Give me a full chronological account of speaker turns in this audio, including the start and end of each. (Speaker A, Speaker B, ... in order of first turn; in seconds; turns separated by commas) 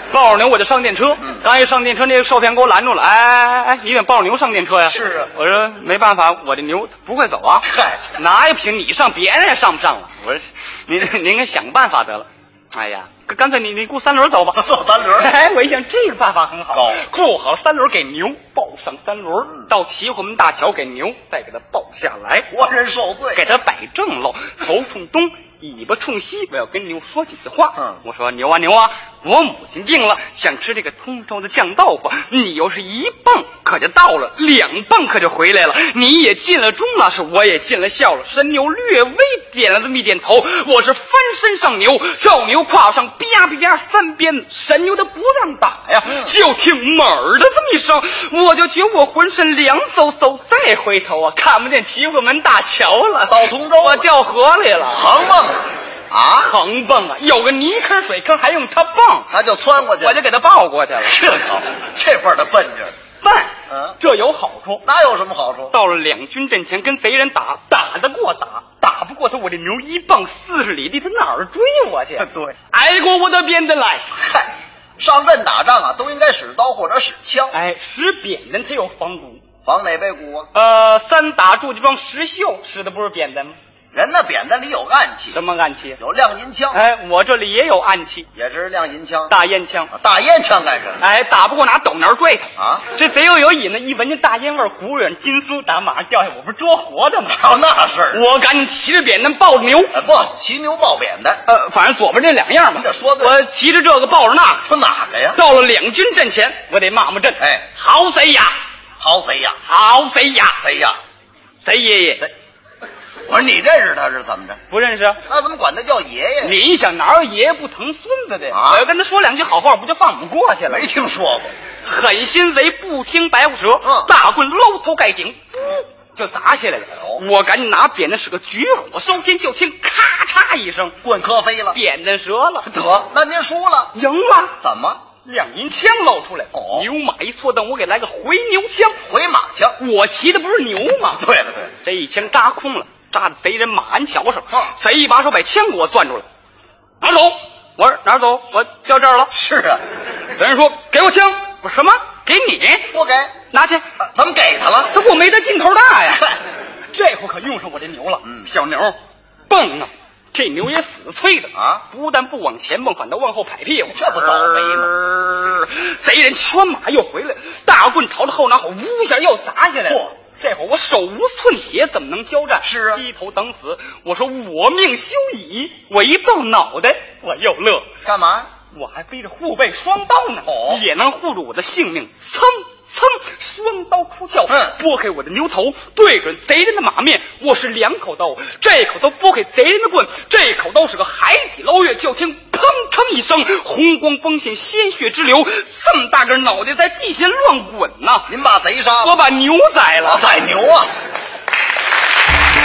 Speaker A: 0.1-14.6, Speaker B: 1.2-1.5, Speaker B: 4.8-5.3, Speaker B: 7.6-8.1, Speaker B: 14.5-15.3, Speaker A: 15.2-22.5, Speaker B: 16.7-17.1, Speaker B: 22.5-23.4, Speaker A: 23.3-55.1, Speaker B: 46.0-46.4, Speaker B: 53.2-54.1, Speaker B: 54.9-56.5, Speaker A: 56.4-59.3, Speaker B: 59.3-60.2, Speaker A: 59.9-61.3, Speaker B: 61.0-62.9, Speaker A: 63.2-64.8, Speaker B: 63.7-64.0, Speaker B: 64.8-65.7, Speaker A: 65.7-74.0, Speaker B: 72.2-72.5, Speaker B: 74.1-77.6, Speaker A: 77.5-79.4, Speaker B: 79.6-80.5, Speaker A: 80.5-83.6, Speaker B: 83.9-85.4, Speaker A: 85.3-86.0, Speaker B: 86.0-86.8, Speaker A: 86.7-88.3, Speaker B: 88.3-89.3, Speaker A: 89.3-89.9, Speaker B: 89.9-91.0, Speaker A: 91.0-97.4, Speaker B: 92.5-92.8, Speaker B: 97.3-98.2, Speaker A: 98.1-100.0, Speaker B: 99.9-101.4, Speaker A: 101.5-104.7, Speaker B: 102.7-103.4, Speaker B: 104.6-105.4, Speaker A: 105.3-108.6, Speaker B: 107.4-107.7, Speaker B: 109.0-109.6, Speaker A: 109.6-110.6, Speaker B: 110.6-111.0, Speaker A: 111.6-112.3, Speaker B: 113.3-114.6, Speaker A: 114.7-115.2, Speaker B: 115.3-116.6, Speaker A: 116.4-120.9, Speaker B: 118.5-118.9, Speaker B: 120.7-121.5, Speaker A: 121.8-130.9, Speaker B: 123.8-124.1, Speaker B: 126.9-127.2, Speaker B: 131.0-131.8, Speaker A: 131.7-132.7, Speaker B: 132.6-133.9, Speaker A: 133.9-134.6, Speaker B: 134.6-135.0, Speaker A: 135.2-139.0, Speaker B: 136.5-136.9, Speaker B: 139.0-139.8, Speaker A: 139.8-141.2, Speaker B: 141.1-141.7, Speaker A: 141.8-146.2, Speaker A: 147.0-149.3, Speaker B: 149.3-149.8, Speaker A: 150.3-152.9, Speaker B: 152.9-153.3, Speaker A: 153.5-153.8, Speaker B: 154.0-154.9, Speaker A: 154.9-156.3, Speaker B: 156.1-156.3, Speaker A: 156.9-158.9, Speaker A: 159.5-177.9, Speaker B: 161.5-161.8, Speaker B: 163.9-164.9, Speaker B: 169.8-170.1, Speaker B: 172.6-173.0, Speaker B: 178.0-178.5, Speaker A: 178.7-198.3, Speaker B: 180.4-180.8, Speaker B: 184.5-184.8, Speaker B: 198.3-199.2, Speaker A: 199.0-200.3, Speaker B: 200.0-200.9